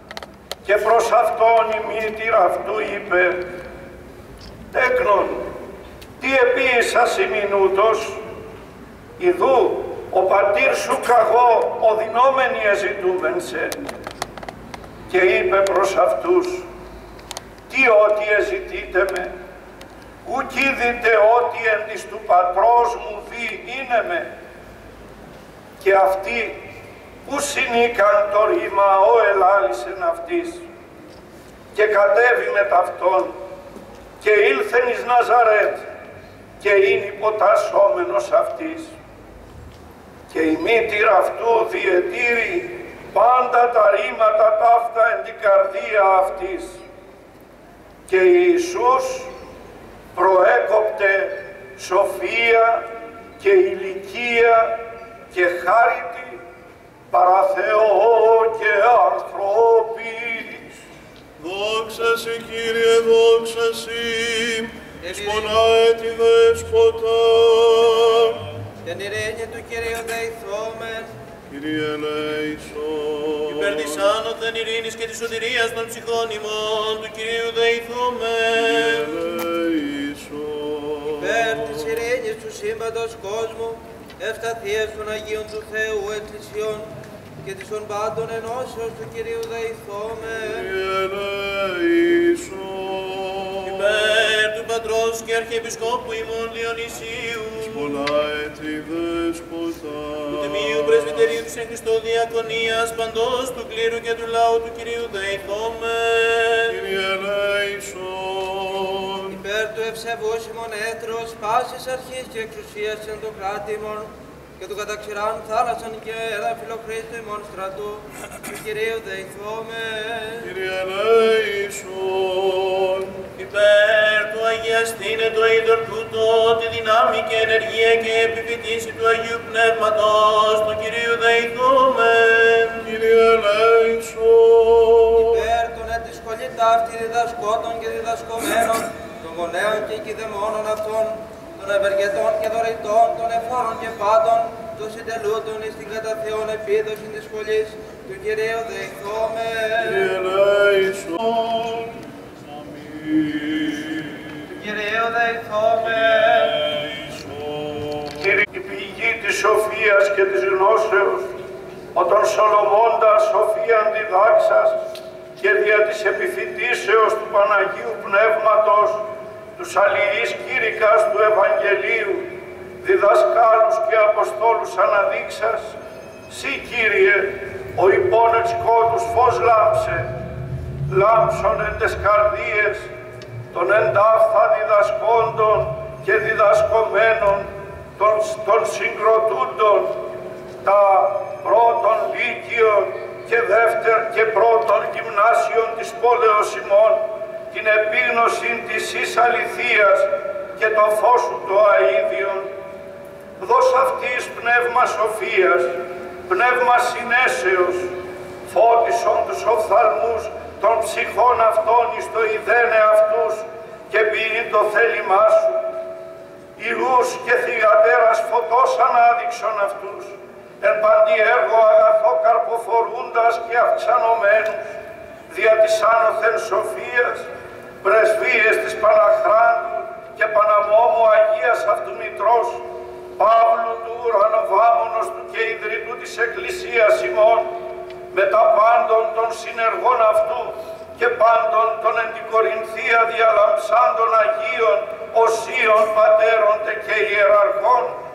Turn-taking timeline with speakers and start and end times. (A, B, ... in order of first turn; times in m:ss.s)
0:00.6-0:03.4 A
0:04.7-0:05.4 A
0:06.2-0:08.2 A
0:09.2-0:13.9 A
0:15.1-0:16.6 A
0:17.7-0:19.3 A
0:20.2-0:24.3 A
0:25.8-0:26.6 A
0:27.2-0:30.6 A
0:31.7-0:33.3 A
0:34.2-0:35.8 A
0:36.6-0:38.9 A
0:40.3-0:46.8 A
0:48.1-0:49.3 A
0:50.1-0:52.8 A
0:53.4-0:54.8 A
0:55.3-0:56.4 A
0:57.1-1:00.7 A
1:01.4-1:08.5 B
1:05.0-1:05.5 C
1:08.8-1:11.1 C
1:11.5-1:14.2 B
1:14.3-1:18.5 D
1:18.5-1:21.8 B
1:21.2-1:30.7 C
1:30.5-1:34.1 B
1:34.1-1:37.5 D
1:37.4-1:41.4 B
1:41.5-1:46.5 D
1:46.6-1:49.3 B
1:49.3-2:00.5 C
2:00.4-2:03.4 B
2:03.4-2:12.7 D
2:12.8-2:15.3 B
2:15.2-2:30.2 C
2:29.8-2:34.4 B
2:34.5-2:36.6 C
2:36.0-2:38.2 B
2:38.2-2:41.3 A
2:41.9-2:44.8 A
2:45.4-2:49.0 A
2:49.6-2:52.3 A
2:52.8-2:55.7 A
2:56.3-3:00.0 A
3:00.9-3:02.9 A
3:03.5-3:09.9 A
3:10.6-3:22.5 A
3:23.4-3:27.9 A
3:28.5-3:35.6 A
3:36.6-3:44.6 A
3:45.3-3:47.3 A
3:47.8-3:52.6 A
3:53.2-3:57.5 A
3:58.1-4:07.9 A